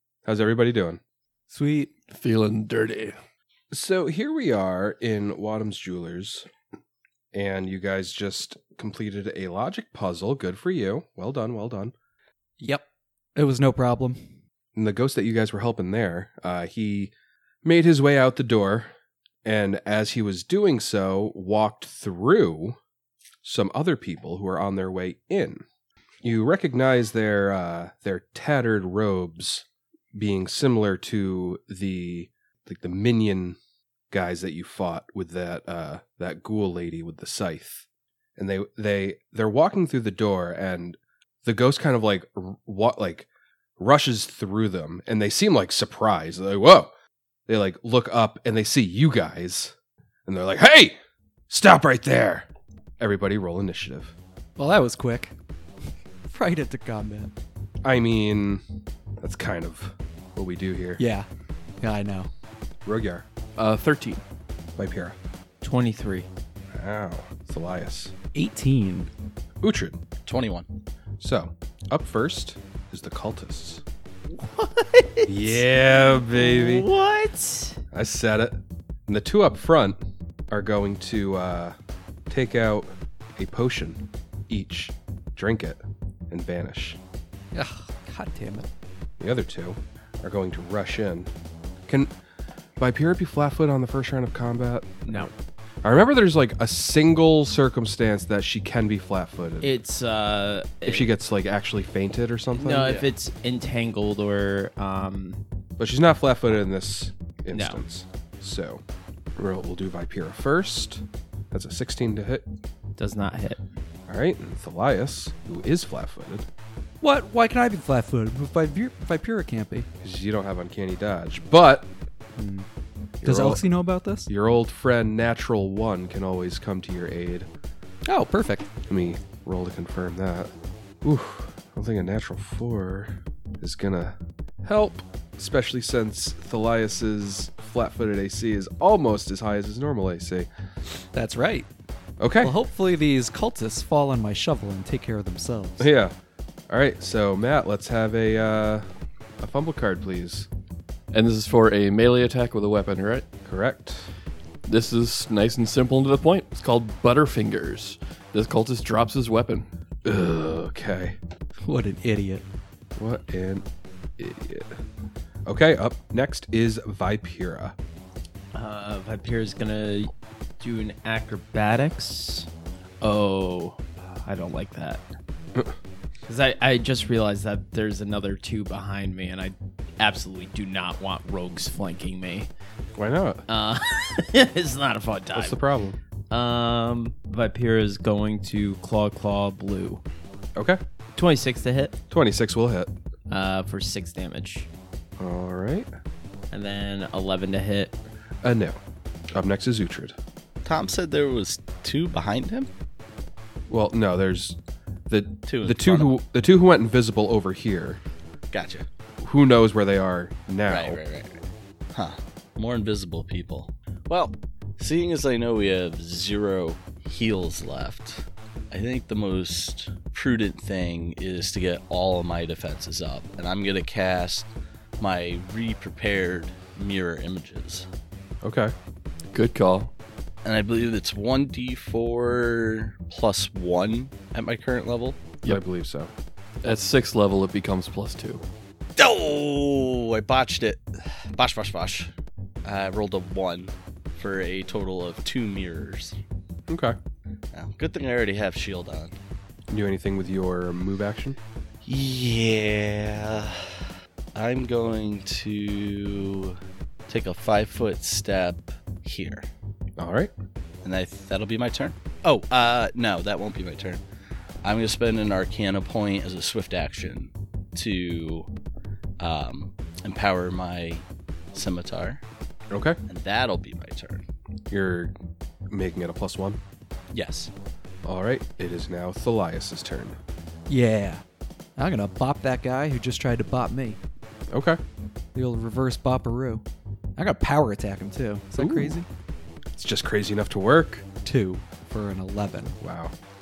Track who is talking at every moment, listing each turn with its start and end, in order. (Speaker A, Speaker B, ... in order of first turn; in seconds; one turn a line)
Speaker A: 0.2-1.0
Speaker B: 1.5-1.9
Speaker C: 2.1-3.1
Speaker A: 3.7-6.5
Speaker A: 7.3-11.9
Speaker B: 12.6-14.2
Speaker A: 14.7-17.1
Speaker A: 17.6-22.8
Speaker A: 23.4-25.6
Speaker A: 26.2-33.6
Speaker A: 34.1-46.9
Speaker A: 47.5-49.7
Speaker A: 50.3-51.0
Speaker A: 51.5-52.5
Speaker A: 53.0-54.1
Speaker B: 54.6-55.3
Speaker B: 56.3-57.3
Speaker A: 57.8-58.6
Speaker A: 59.2-61.0
Speaker B: 61.0-61.3
Speaker B: 61.8-62.3
Speaker A: 62.8-63.2
Speaker C: 63.6-64.2
Speaker A: 64.8-65.2
Speaker D: 65.6-66.3
Speaker A: 66.7-68.1
Speaker B: 68.3-69.1
Speaker A: 69.6-70.0
Speaker E: 70.3-70.7
Speaker A: 71.2-73.8
Speaker D: 74.3-75.6
Speaker A: 75.2-76.9
Speaker D: 76.3-77.8
Speaker A: 77.9-80.0
Speaker A: 80.5-81.8
Speaker A: 82.3-87.0
Speaker B: 87.5-88.7
Speaker A: 89.2-91.3
Speaker A: 91.9-92.1
Speaker A: 92.8-99.8
Speaker D: 99.6-101.1
Speaker A: 100.8-103.0
Speaker D: 102.6-105.4
Speaker E: 102.8-103.1
Speaker A: 105.8-108.8
Speaker D: 107.5-107.8
Speaker A: 109.4-112.5
Speaker D: 113.0-113.6
Speaker A: 114.1-116.5
Speaker B: 117.0-119.9
Speaker A: 120.0-121.9
Speaker B: 122.4-122.7
Speaker A: 123.2-123.6
Speaker B: 123.2-124.3
Speaker A: 124.3-127.5
Speaker B: 128.1-128.7
Speaker A: 128.9-130.5
Speaker A: 131.0-140.5
Speaker B: 141.1-141.7
Speaker A: 142.2-142.6
Speaker B: 142.4-145.9
Speaker A: 145.8-146.1
Speaker A: 146.7-148.8
Speaker A: 149.4-150.5
Speaker C: 151.1-153.2
Speaker A: 153.4-154.1
Speaker C: 154.6-159.7
Speaker A: 160.0-161.2
Speaker B: 161.6-162.4
Speaker A: 162.9-163.6
Speaker A: 164.2-164.7
Speaker A: 165.4-167.7
Speaker D: 168.5-172.5
Speaker D: 173.0-175.0
Speaker D: 176.2-182.5
Speaker A: 182.9-183.4
Speaker D: 183.5-185.6
Speaker A: 185.3-186.0
Speaker D: 186.3-190.0
Speaker D: 191.2-191.9
Speaker A: 192.1-192.9
Speaker D: 193.3-194.7
Speaker A: 195.2-195.9
Speaker D: 196.5-197.9
Speaker A: 198.4-198.8
Speaker A: 199.3-200.2
Speaker E: 200.6-202.7
Speaker A: 203.7-204.6
Speaker A: 205.1-208.0
Speaker E: 205.5-206.1
Speaker E: 208.5-208.8
Speaker A: 209.2-211.0
Speaker E: 210.7-211.4
Speaker E: 211.9-227.8
Speaker A: 228.4-228.7
Speaker C: 229.3-229.9
Speaker E: 230.4-235.2
Speaker A: 235.5-236.1
Speaker C: 236.6-238.4
Speaker E: 239.0-242.1
Speaker E: 242.6-246.2
Speaker A: 246.7-247.0
Speaker E: 247.5-249.2
Speaker A: 249.7-251.4
Speaker E: 251.8-256.6
Speaker E: 257.1-259.5
Speaker A: 260.0-260.3
Speaker E: 260.8-264.0
Speaker E: 264.6-268.5
Speaker E: 269.2-272.2
Speaker A: 272.7-273.0
Speaker E: 273.1-274.2
Speaker A: 274.7-275.1
Speaker A: 275.7-276.6
Speaker E: 277.1-277.5
Speaker A: 278.1-280.2
Speaker B: 280.7-281.2
Speaker B: 281.8-284.0
Speaker A: 284.5-284.8
Speaker B: 285.4-286.6
Speaker B: 287.2-289.1
Speaker A: 288.6-289.0
Speaker A: 289.8-291.0
Speaker B: 291.2-292.8
Speaker A: 292.8-293.1